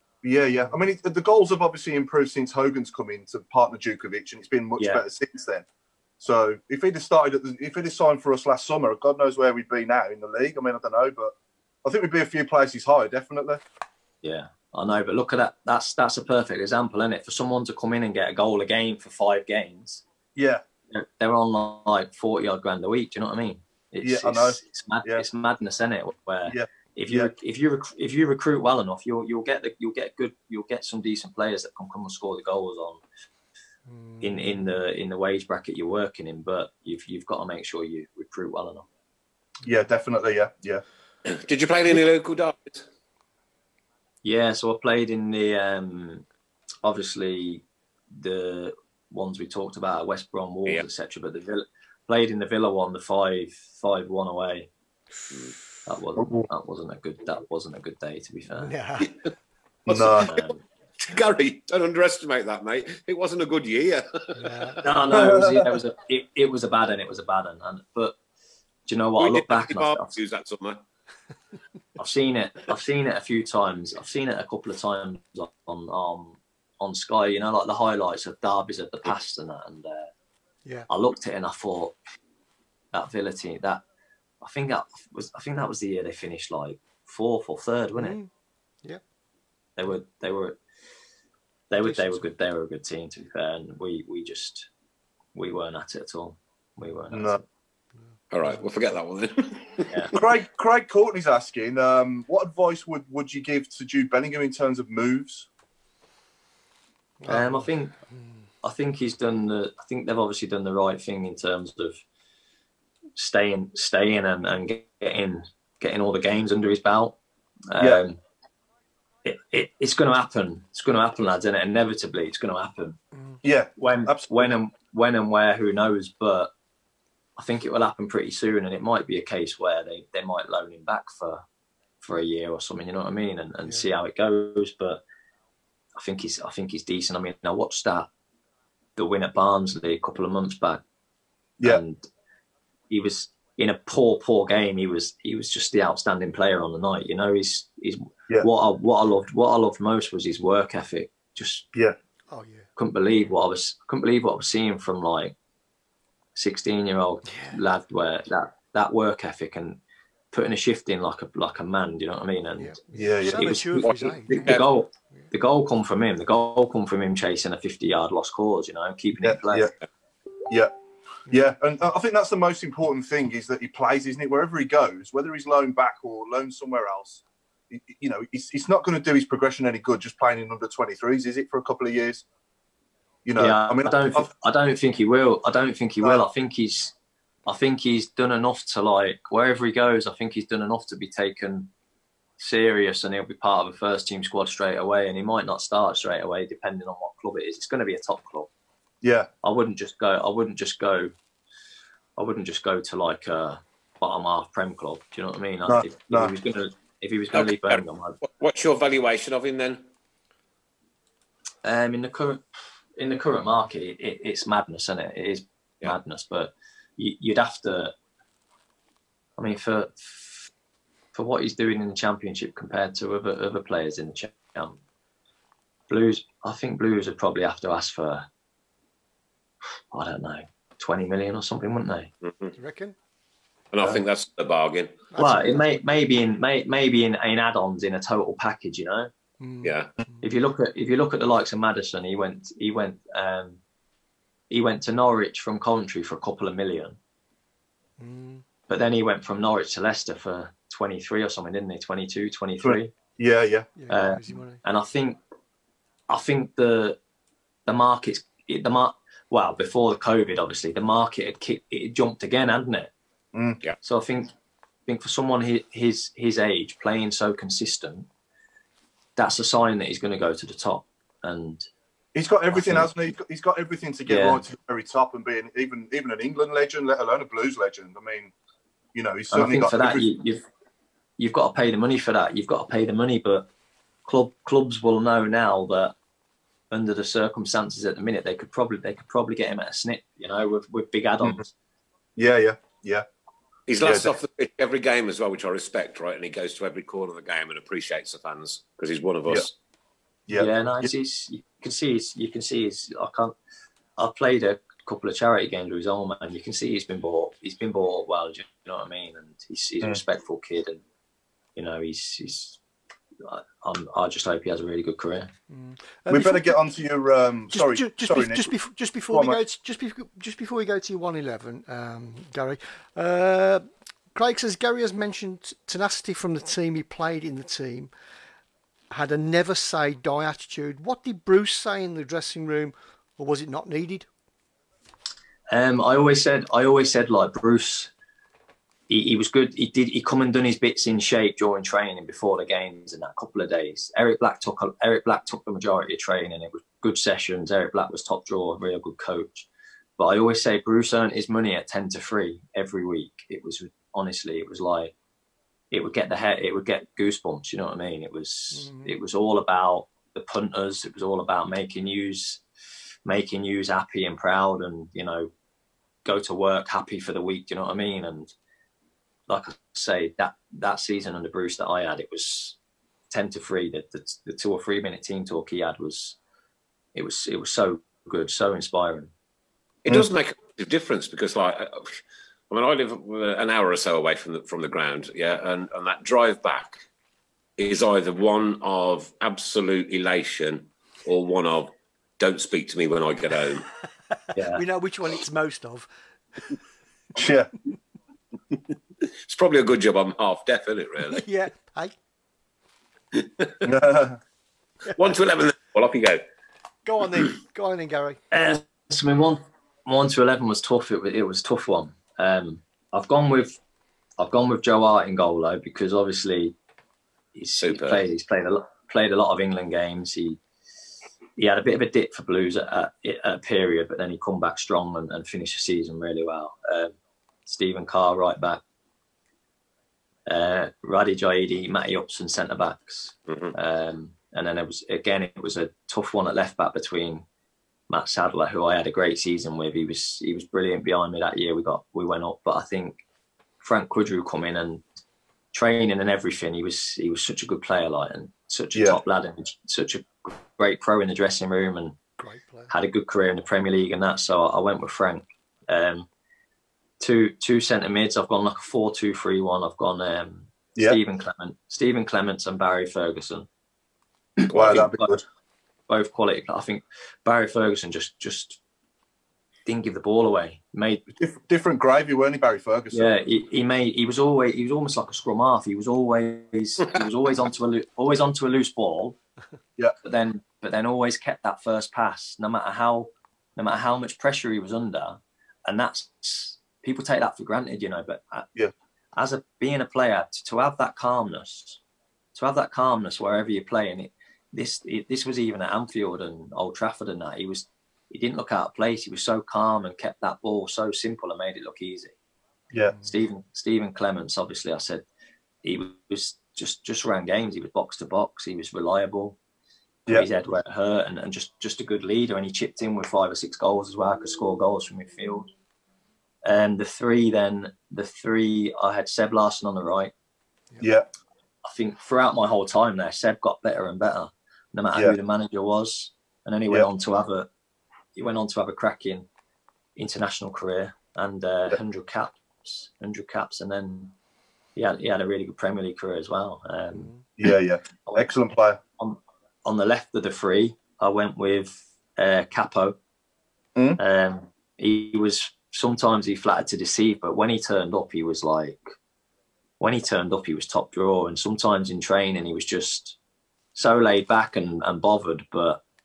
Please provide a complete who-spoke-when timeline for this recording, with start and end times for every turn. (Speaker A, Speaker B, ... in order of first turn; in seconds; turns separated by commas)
Speaker A: 0.2-5.7, Speaker B: 4.8-5.0, Speaker A: 6.2-11.3, Speaker A: 11.8-13.6, Speaker B: 14.2-20.0, Speaker A: 20.4-20.6, Speaker B: 20.9-33.0, Speaker A: 24.0-25.2, Speaker A: 26.5-27.3, Speaker C: 33.9-34.3, Speaker B: 34.2-38.9, Speaker A: 39.6-40.8, Speaker D: 41.2-42.9, Speaker B: 44.2-46.2, Speaker B: 46.8-54.7, Speaker B: 55.9-58.7, Speaker A: 56.2-56.5, Speaker C: 58.6-59.1, Speaker A: 59.9-60.3, Speaker B: 59.9-60.6, Speaker D: 60.2-60.5, Speaker D: 61.0-64.9, Speaker C: 64.4-64.8, Speaker B: 64.8-68.2, Speaker A: 65.1-65.8, Speaker B: 68.9-70.1, Speaker D: 69.2-70.8, Speaker B: 72.0-80.1, Speaker B: 80.9-82.0, Speaker B: 82.9-83.8, Speaker B: 84.4-88.2, Speaker C: 88.0-88.3, Speaker B: 89.8-90.6, Speaker B: 91.7-94.7, Speaker C: 91.9-92.1, Speaker B: 95.3-97.4, Speaker A: 97.1-97.4, Speaker D: 98.3-100.3, Speaker A: 100.1-105.5, Speaker C: 107.2-107.7, Speaker B: 107.3-108.0, Speaker B: 108.6-112.0, Speaker B: 113.2-117.2, Speaker B: 117.7-118.2, Speaker A: 117.8-118.0, Speaker B: 119.2-123.0, Speaker A: 123.4-124.5, Speaker B: 123.8-126.5, Speaker B: 127.4-131.4, Speaker B: 132.0-135.0, Speaker B: 136.0-138.1, Speaker B: 139.0-140.8, Speaker B: 141.7-142.1, Speaker B: 142.9-151.7, Speaker C: 152.3-152.7, Speaker B: 152.8-155.4, Speaker B: 156.4-159.8, Speaker C: 157.3-157.6, Speaker B: 160.3-162.8, Speaker C: 162.6-164.7, Speaker A: 162.9-163.7, Speaker B: 163.3-163.8, Speaker D: 163.7-164.7, Speaker B: 164.4-169.7, Speaker A: 169.2-169.7, Speaker A: 171.3-182.2, Speaker A: 183.3-184.3, Speaker B: 183.4-186.9, Speaker B: 187.5-191.7, Speaker B: 192.4-198.5, Speaker A: 199.0-199.3, Speaker B: 199.4-201.1, Speaker B: 202.2-208.2, Speaker A: 205.7-206.3, Speaker D: 207.3-209.8, Speaker B: 211.6-212.4, Speaker B: 213.0-217.9, Speaker B: 219.4-220.5, Speaker B: 221.1-224.8, Speaker B: 225.9-228.3, Speaker B: 229.9-232.1, Speaker D: 232.2-232.5, Speaker C: 232.6-232.9, Speaker D: 233.7-235.0, Speaker C: 235.1-235.7, Speaker B: 235.2-239.1, Speaker C: 239.4-240.2, Speaker D: 239.6-239.9, Speaker B: 240.2-243.6, Speaker B: 244.5-247.0, Speaker C: 248.0-248.4, Speaker B: 248.7-252.9, Speaker A: 252.6-253.7, Speaker C: 253.8-254.6, Speaker B: 253.9-255.2, Speaker B: 256.1-257.0, Speaker B: 257.7-262.9, Speaker A: 263.3-263.6, Speaker B: 263.8-264.3, Speaker B: 264.9-268.1, Speaker B: 269.2-271.7, Speaker A: 272.1-278.3, Speaker B: 272.5-272.9, Speaker B: 274.1-274.4, Speaker A: 278.9-280.1, Speaker B: 279.3-280.4, Speaker B: 281.2-283.5, Speaker B: 284.1-285.9, Speaker B: 286.7-291.5, Speaker A: 292.2-293.1, Speaker D: 293.7-299.6, Speaker A: 293.8-294.1, Speaker A: 300.3-300.9, Speaker B: 300.3-303.4, Speaker B: 304.0-310.8, Speaker B: 311.6-312.6, Speaker B: 313.2-315.3, Speaker C: 315.5-316.6, Speaker A: 316.1-318.5, Speaker C: 317.5-327.9, Speaker A: 319.1-319.4, Speaker C: 328.9-334.1, Speaker B: 335.5-337.9, Speaker B: 338.9-354.9, Speaker B: 355.7-362.4, Speaker C: 358.5-358.9, Speaker B: 363.1-365.3, Speaker B: 366.1-368.3, Speaker B: 369.3-372.6, Speaker B: 373.1-376.2, Speaker B: 376.9-379.1, Speaker D: 379.9-386.9, Speaker D: 387.6-393.7, Speaker B: 394.3-394.6, Speaker C: 394.5-395.9, Speaker A: 397.2-397.5, Speaker D: 399.2-401.3, Speaker C: 401.1-401.9, Speaker D: 403.1-403.7, Speaker A: 403.6-404.2, Speaker D: 404.9-406.2, Speaker C: 406.9-408.2, Speaker B: 408.3-413.6, Speaker B: 414.2-416.6, Speaker B: 417.4-420.4, Speaker D: 417.6-418.0, Speaker B: 421.4-426.9, Speaker B: 427.5-428.6, Speaker B: 430.3-437.2, Speaker D: 433.3-433.6, Speaker B: 437.9-443.0, Speaker B: 443.6-444.8, Speaker B: 445.5-452.0, Speaker A: 448.8-449.0, Speaker C: 452.2-452.7, Speaker B: 452.7-456.1, Speaker B: 457.0-463.5, Speaker B: 464.4-465.2, Speaker A: 464.5-465.2, Speaker B: 465.9-468.6, Speaker B: 469.7-471.0, Speaker A: 471.1-473.1, Speaker B: 472.9-479.2, Speaker B: 480.0-488.5, Speaker B: 489.1-491.8, Speaker B: 492.4-502.1, Speaker B: 503.0-505.1, Speaker B: 505.6-509.4, Speaker B: 510.1-515.5, Speaker B: 516.4-520.1, Speaker A: 520.8-521.1, Speaker B: 521.6-527.5, Speaker B: 528.1-529.3, Speaker B: 530.0-534.1, Speaker B: 534.8-537.1, Speaker C: 537.0-537.2, Speaker A: 537.4-538.8, Speaker B: 538.0-538.3, Speaker B: 539.0-543.0, Speaker B: 544.0-548.9, Speaker B: 549.8-553.2, Speaker B: 553.8-555.8